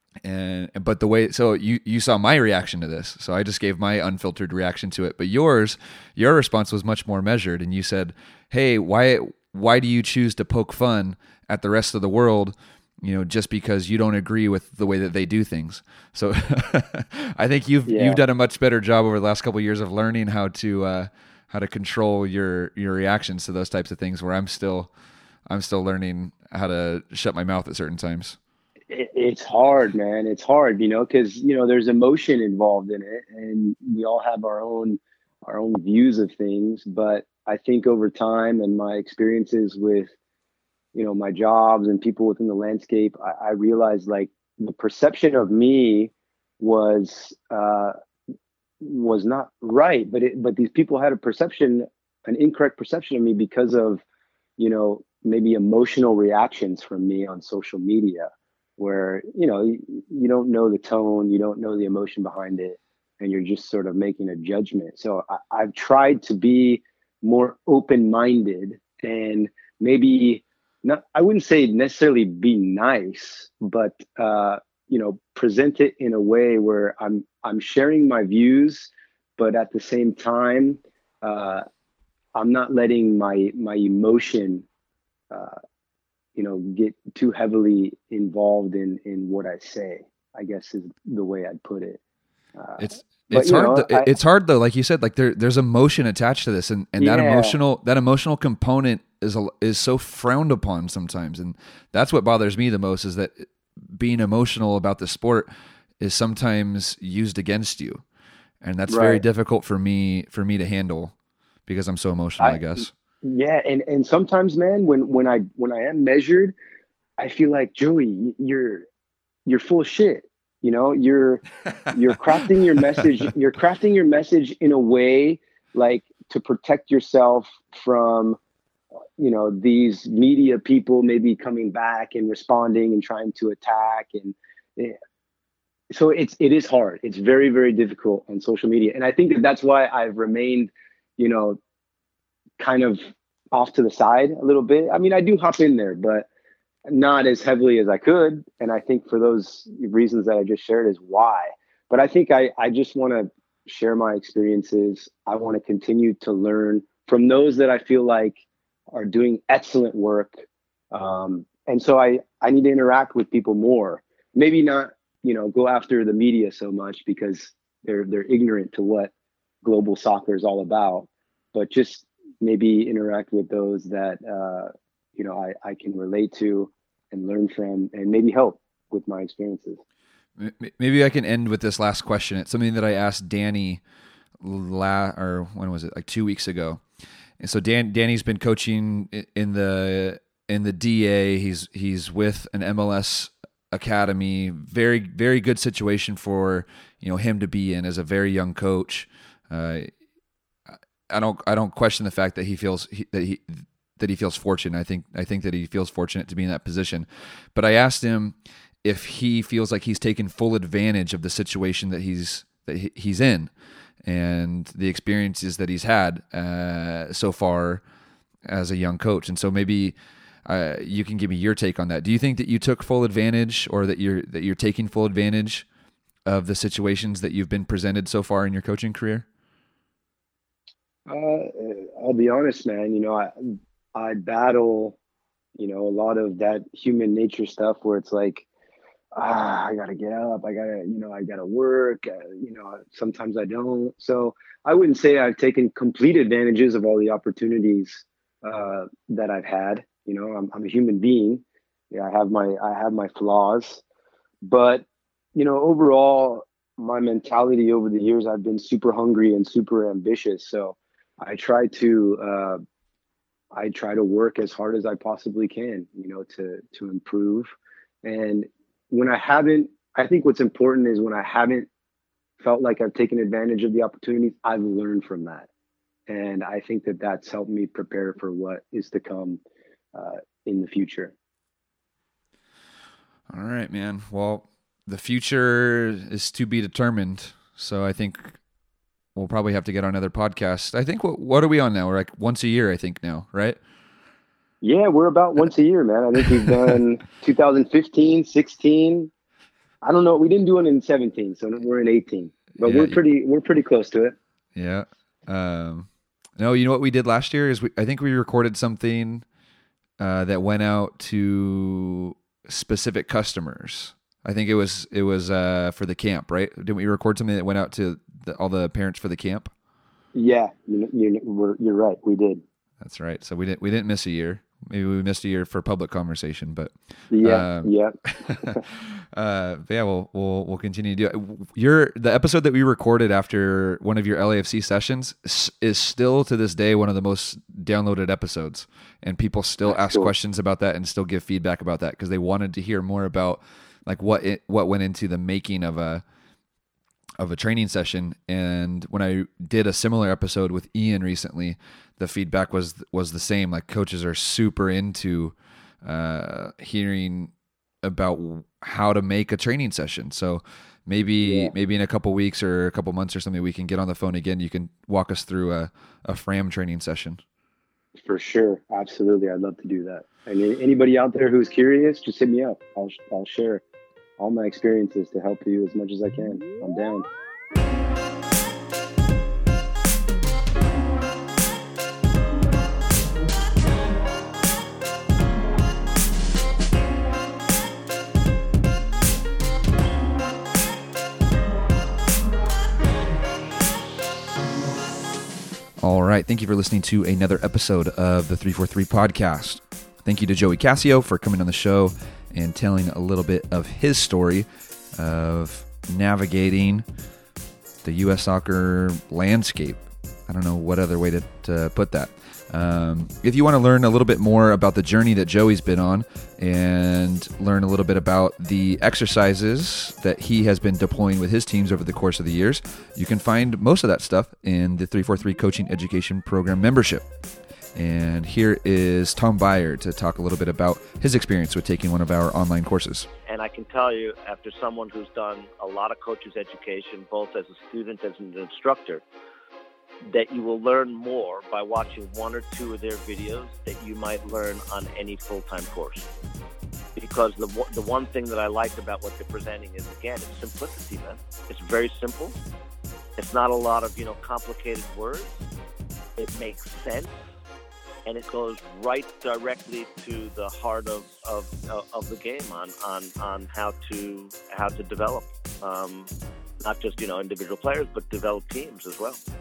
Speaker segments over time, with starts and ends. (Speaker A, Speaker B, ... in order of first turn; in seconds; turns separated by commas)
Speaker A: 0.2-24.9, Speaker B: 17.9-18.2, Speaker A: 25.5-28.4, Speaker B: 28.9-40.1, Speaker B: 40.9-47.9, Speaker B: 48.8-54.0, Speaker B: 54.6-81.6, Speaker B: 82.3-84.6, Speaker B: 85.3-85.5, Speaker B: 86.3-92.0, Speaker B: 92.6-94.1, Speaker A: 92.8-105.5, Speaker B: 97.0-97.6, Speaker A: 106.0-108.0, Speaker A: 108.6-111.1, Speaker B: 108.9-109.2, Speaker A: 111.7-112.9, Speaker B: 112.4-116.5, Speaker B: 117.2-118.8, Speaker B: 119.5-128.4, Speaker A: 122.8-123.2, Speaker B: 129.2-135.0, Speaker B: 135.9-141.6, Speaker B: 142.6-146.3, Speaker B: 146.9-158.4, Speaker B: 158.9-169.1, Speaker B: 169.6-179.8, Speaker A: 180.4-183.8, Speaker A: 184.4-186.8, Speaker A: 187.4-199.9, Speaker A: 201.1-213.5, Speaker A: 214.0-217.8, Speaker A: 218.4-225.7, Speaker A: 226.2-229.2, Speaker B: 231.1-235.0, Speaker B: 235.6-238.4, Speaker B: 239.2-253.8, Speaker B: 254.4-262.6, Speaker B: 263.5-267.5, Speaker B: 268.0-271.7, Speaker B: 272.4-275.5, Speaker B: 276.1-279.4, Speaker B: 279.9-281.1, Speaker A: 283.3-288.4, Speaker A: 289.1-293.6, Speaker B: 294.6-299.1, Speaker A: 296.4-296.8, Speaker B: 299.8-304.1, Speaker A: 302.6-303.0, Speaker A: 304.5-309.2, Speaker A: 310.0-319.5, Speaker B: 320.1-322.4, Speaker A: 322.8-346.0, Speaker B: 327.1-328.6, Speaker B: 339.7-340.1, Speaker A: 347.2-357.3, Speaker A: 357.8-367.2, Speaker B: 361.2-361.5, Speaker B: 368.0-373.6, Speaker B: 374.2-377.1, Speaker A: 395.8-406.9, Speaker A: 407.8-427.1, Speaker A: 427.7-433.1, Speaker C: 433.3-439.0, Speaker C: 440.0-446.1, Speaker C: 446.9-452.4, Speaker C: 453.2-455.4, Speaker C: 456.2-457.1, Speaker C: 458.1-466.1, Speaker C: 466.6-469.2